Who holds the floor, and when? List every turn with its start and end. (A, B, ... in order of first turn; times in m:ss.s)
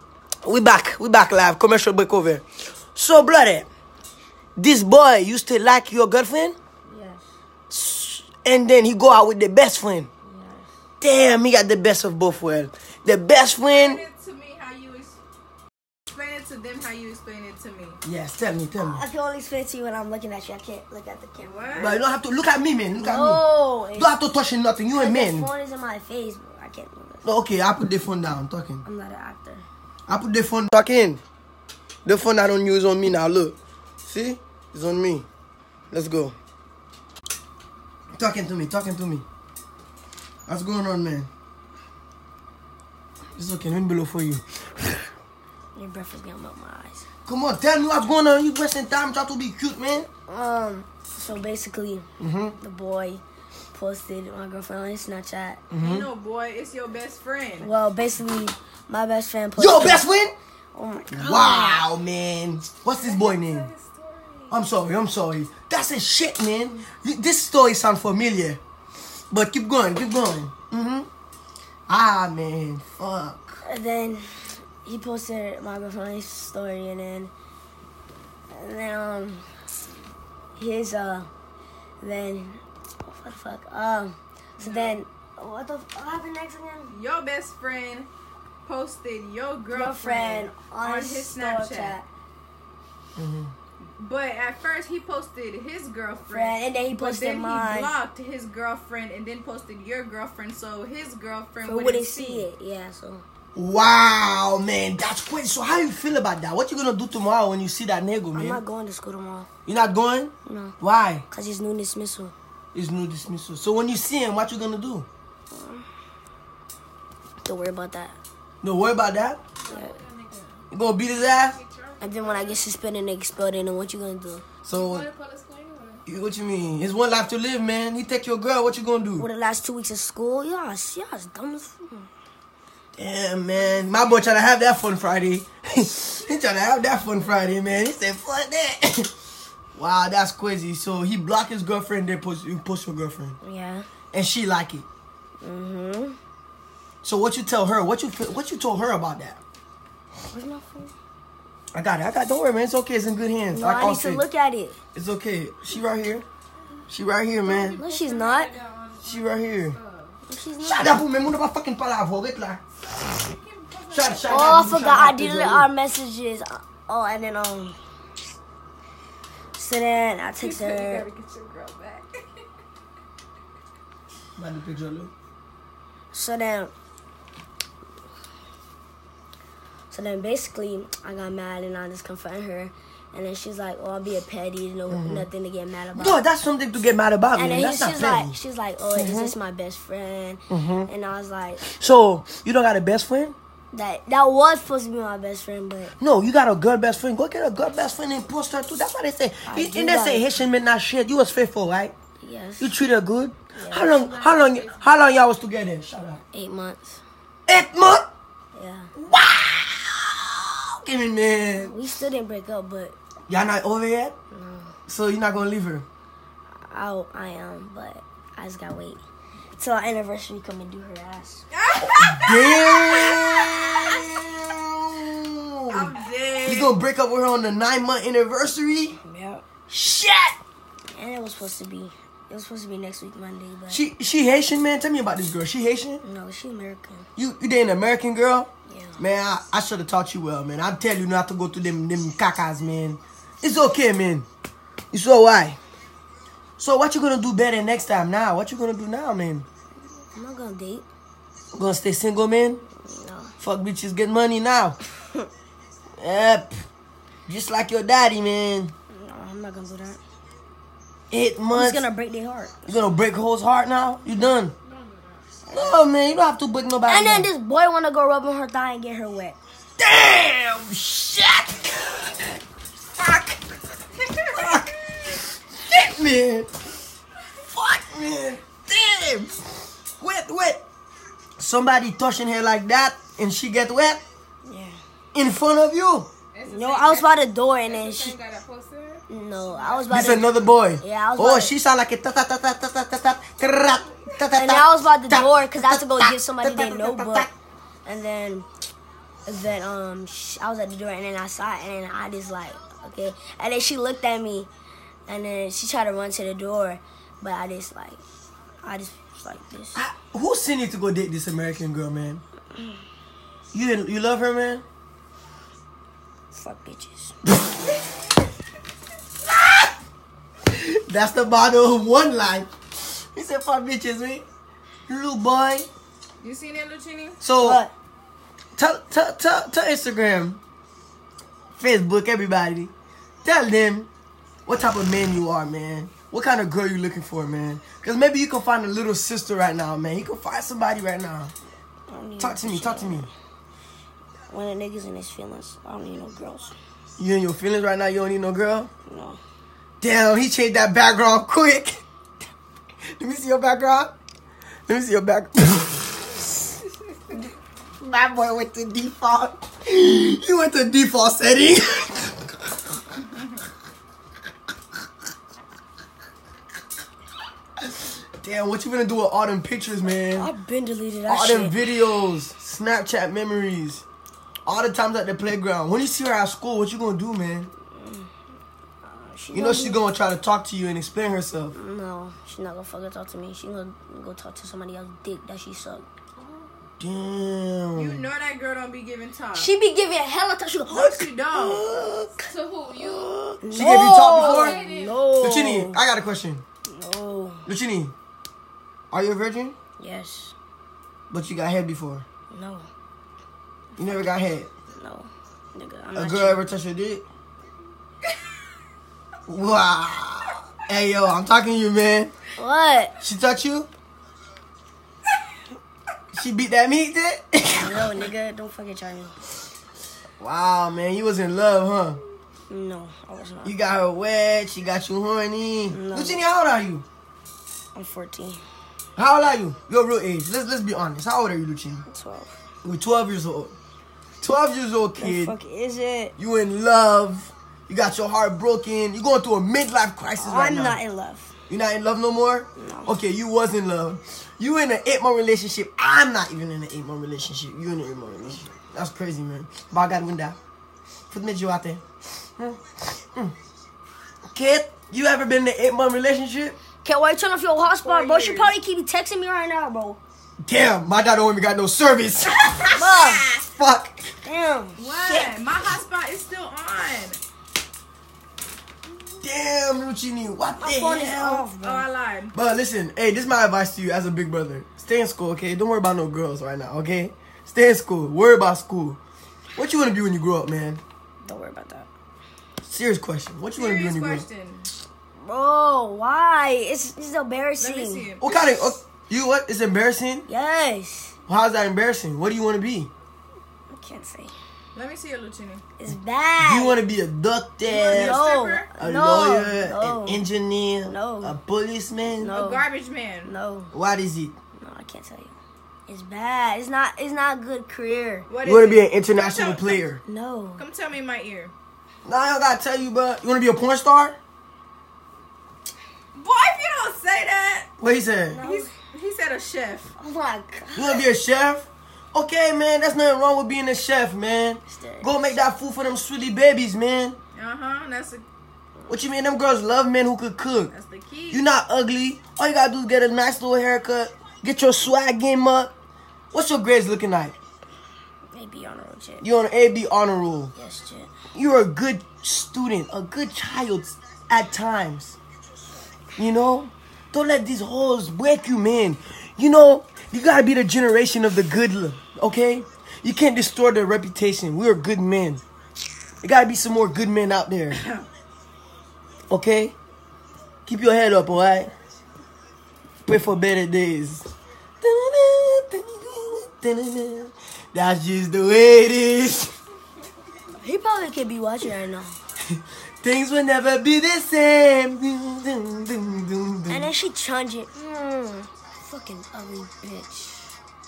0:00.4-0:03.7 A
0:04.6-0:06.6 A
0:06.8-0:07.3 B
0:07.7-0:10.1 A
0:10.2-0:10.7 B
0:11.0-0:14.0 A
0:13.5-0:15.2 C
0:16.1-0:18.0 C
0:18.0-0:19.0 A
0:18.8-0:22.0 B
0:21.4-0:22.0 C
0:21.8-0:23.4 A
0:23.0-0:24.2 B
0:24.0-0:25.5 A
0:24.9-0:27.3 B
0:27.2-0:28.8 A
0:28.8-0:29.7 B
0:30.1-0:31.2 A
0:32.0-0:35.3 A
0:35.9-0:36.4 A
0:38.2-0:39.2 A
0:40.5-0:41.3 A
0:43.4-0:45.1 A
0:45.8-0:47.1 B
0:47.3-0:50.1 A
0:50.3-0:53.2 B
0:52.2-0:52.6 A
0:53.7-0:55.6 B
0:55.7-0:56.1 A
0:55.8-0:57.7 C
0:57.6-1:00.1 B
0:59.6-1:00.4 A
1:00.7-1:01.8 B
1:01.1-1:03.7 A
1:03.0-1:04.7 C
1:04.5-1:08.6 A
1:09.3-1:11.1 A
1:11.9-1:13.6 A
1:13.6-1:17.3 B
1:18.5-1:19.5 B
1:20.6-1:21.3 B
1:22.0-1:26.9 B
1:24.6-1:25.0 C
1:26.9-1:28.1 C
1:28.6-1:32.0 C
1:29.7-1:32.1 B
1:33.2-1:33.5 A
1:34.0-1:42.5 C
1:36.3-1:37.9 B
1:41.6-1:43.2 B
1:43.6-1:48.6 A
1:48.3-1:49.5 B
1:49.7-1:51.2 A
1:50.5-1:50.8 B
1:51.3-1:52.3 B
1:52.7-1:55.1 A
1:55.5-1:55.9 B
1:57.4-1:58.2 B
1:58.6-1:59.4 A
1:59.6-2:02.6 C
1:59.7-1:59.9 B
2:00.7-2:01.6 A
2:02.0-2:04.4 B
2:04.6-2:05.1 A
2:04.7-2:06.0 C
2:06.1-2:09.3 A
2:09.2-2:12.1 B
2:13.0-2:19.1 A
2:13.5-2:14.4 C
2:19.7-2:23.4 A
2:23.4-2:23.9 B
2:24.1-2:24.9 A
2:25.4-2:26.2 B
2:27.0-2:29.4 A
2:30.3-2:30.9 B
2:31.7-2:34.2 A
2:33.5-2:34.8 B
2:35.0-2:36.2 A
2:36.9-2:37.8 A
2:37.4-2:40.2 C
2:37.7-2:38.5 B
2:39.0-2:39.8 A
2:40.3-2:41.0 B
2:40.6-2:42.6 A
2:42.9-2:44.8 C
2:43.9-2:45.7 A
2:44.3-2:47.8 B
2:49.6-2:51.1 B
2:50.4-2:52.4 C
2:54.4-2:55.1 A
2:56.1-2:56.7 B
2:59.9-3:06.2 B
3:04.9-3:05.3 A
3:06.0-3:08.4 A
3:07.4-3:11.6 B
3:09.0-3:09.4 A
3:10.5-3:10.9 A
3:11.6-3:13.4 A
3:13.7-3:16.0 B
3:16.0-3:21.9 A
3:19.5-3:20.3 B
3:22.2-3:22.7 B
3:22.6-3:26.2 A
3:23.6-3:24.1 B
3:23.8-3:25.0 C
3:26.3-3:27.0 B
3:27.5-3:28.1 A
3:28.5-3:28.9 B
3:29.0-3:31.8 A
3:31.6-3:33.0 B
3:33.3-3:34.2 A
3:34.3-3:34.8 B
3:34.9-3:35.9 A
3:36.5-3:39.0 B
3:39.6-3:41.5 B
3:41.5-3:43.6 C
3:42.0-3:45.9 A
3:45.7-3:46.8 C
3:46.4-3:49.0 A
3:49.0-3:49.4 B
3:49.7-3:50.4 A
3:50.9-3:53.8 B
3:53.7-3:56.0 A
3:56.0-3:57.1 B
3:57.2-4:04.3 A
3:58.7-3:59.0 B
4:04.9-4:05.6 A
4:06.6-4:09.5 A
4:10.1-4:10.9 B
4:11.5-4:12.6 A
4:12.7-4:13.4 B
4:13.4-4:14.8 A
4:16.0-4:16.7 A
4:17.3-4:18.7 A
4:18.9-4:20.0 B
4:21.1-4:21.8 A
4:21.5-4:22.7 B
4:22.7-4:24.5 A
4:24.6-4:25.4 C
4:25.5-4:25.8 B
4:25.5-4:27.3 A
4:26.9-4:29.4 B
4:29.8-4:32.4 A
4:33.0-4:33.4 A
4:34.2-4:36.5 A
4:37.5-4:40.6 A
4:41.4-4:44.0 A
4:44.4-4:44.8 B
4:45.1-4:46.1 A
4:46.3-4:50.3 C
4:46.5-4:48.2 B
4:49.1-4:51.5 B
4:49.9-4:57.3 A
4:54.3-4:57.3 B
4:57.8-4:58.5 B
4:59.3-5:04.5 B
5:05.1-5:08.0 B
5:08.6-5:09.8 B
5:09.8-5:12.2 A
5:12.6-5:12.8 B
5:13.5-5:14.6 A
5:16.3-5:17.1 B
5:19.2-5:19.8 A
5:20.4-5:24.3 A
5:24.9-5:25.7 A
5:26.2-5:27.2 C
5:27.2-5:27.6 A
5:27.4-5:27.7 B
5:28.6-5:30.4 A
5:31.6-5:32.7 A
5:33.2-5:33.9 A
5:34.5-5:41.3 A
5:41.9-5:43.1 B
5:42.2-5:43.1 A
5:44.3-5:46.5 B
5:47.0-5:48.7 A
5:48.9-5:49.2 B
5:49.8-5:51.8 A
5:53.0-5:53.9 A
5:54.7-5:56.2 A
5:57.8-6:02.4 A
6:07.6-6:10.3 A
6:10.2-6:11.6 B
6:11.1-6:13.8 A
6:14.5-6:17.5 A
6:17.7-6:18.1 B
6:18.8-6:19.8 B
6:19.3-6:21.6 A
6:21.5-6:25.9 B
6:26.8-6:28.0 A
6:27.8-6:29.5 C
6:29.4-6:32.1 B
6:30.7-6:35.0 C
6:33.4-6:35.8 B
6:33.5-6:34.6 A
6:35.2-6:36.4 A
6:36.7-6:37.5 B
6:37.5-6:37.9 A
6:38.9-6:39.6 A
6:39.8-6:40.4 B
6:41.1-6:42.1 A
6:42.3-6:42.7 B
6:43.8-6:44.5 A
6:44.8-6:46.4 B
6:46.0-6:47.1 A
6:49.3-6:52.1 A
6:52.4-6:53.0 B
6:53.0-6:53.7 A
6:56.1-6:58.1 A
6:57.5-6:59.2 B
7:00.2-7:02.0 A
7:02.5-7:03.6 B
7:03.4-7:06.8 A
7:05.7-7:06.2 B
7:07.8-7:08.4 B
7:09.0-7:11.8 A
7:11.9-7:12.4 B
7:12.6-7:13.6 A
7:14.2-7:15.3 A
7:15.0-7:16.2 B
7:16.2-7:20.8 A
7:20.2-7:21.3 B
7:21.5-7:30.4 A
7:22.6-7:22.9 B
7:31.1-7:31.8 A
7:32.4-7:33.4 A
7:34.3-7:36.6 A
7:36.8-7:40.0 B
7:37.8-7:38.5 C
7:40.4-7:42.8 A
7:42.6-7:43.4 C
7:42.8-7:43.2 B
7:43.4-7:44.2 A
7:44.2-7:45.4 B
7:44.8-7:47.2 C
7:49.2-7:51.5 A
7:50.6-7:51.9 B
7:51.6-7:52.4 C
7:52.3-7:59.0 A
7:59.6-8:00.8 A
8:01.2-8:01.9 B
8:02.6-8:04.3 A
8:03.6-8:04.7 C
8:05.2-8:08.1 B
8:07.6-8:08.6 C
8:08.2-8:10.3 A
8:10.3-8:11.2 B
8:11.3-8:12.9 A
8:13.7-8:14.3 B
8:14.8-8:15.6 C
8:15.8-8:16.8 B
8:16.4-8:18.2 A
8:17.7-8:18.7 C
8:17.9-8:20.2 B
8:18.8-8:22.3 A
8:20.9-8:21.4 B
8:22.2-8:22.6 B
8:22.3-8:23.3 C
8:23.2-8:23.7 B
8:23.7-8:24.4 A
8:24.6-8:28.3 B
8:28.3-8:29.9 C
8:28.4-8:30.0 A
8:30.1-8:30.6 B
8:30.6-8:31.5 C
8:32.0-8:34.2 A
8:36.2-8:37.7 C
8:37.8-8:38.4 A
8:38.3-8:38.7 B
8:38.4-8:40.0 C
8:40.0-8:41.0 B
8:40.8-8:47.2 A
8:44.7-8:45.2 B
8:47.3-8:48.2 C
8:48.9-8:50.7 A
8:50.7-8:51.5 C
8:51.3-8:55.7 A
8:56.3-8:57.4 A
8:58.3-8:59.3 B
8:59.2-9:00.5 A
9:00.6-9:01.1 B
9:01.3-9:05.2 A
9:06.2-9:15.4 A
9:16.2-9:17.8 A
9:19.3-9:19.8 A
9:20.7-9:21.7 A
9:23.1-9:24.3 A
9:24.8-9:29.5 A
9:30.6-9:32.2 B
9:32.5-9:36.9 A
9:36.7-9:40.5 B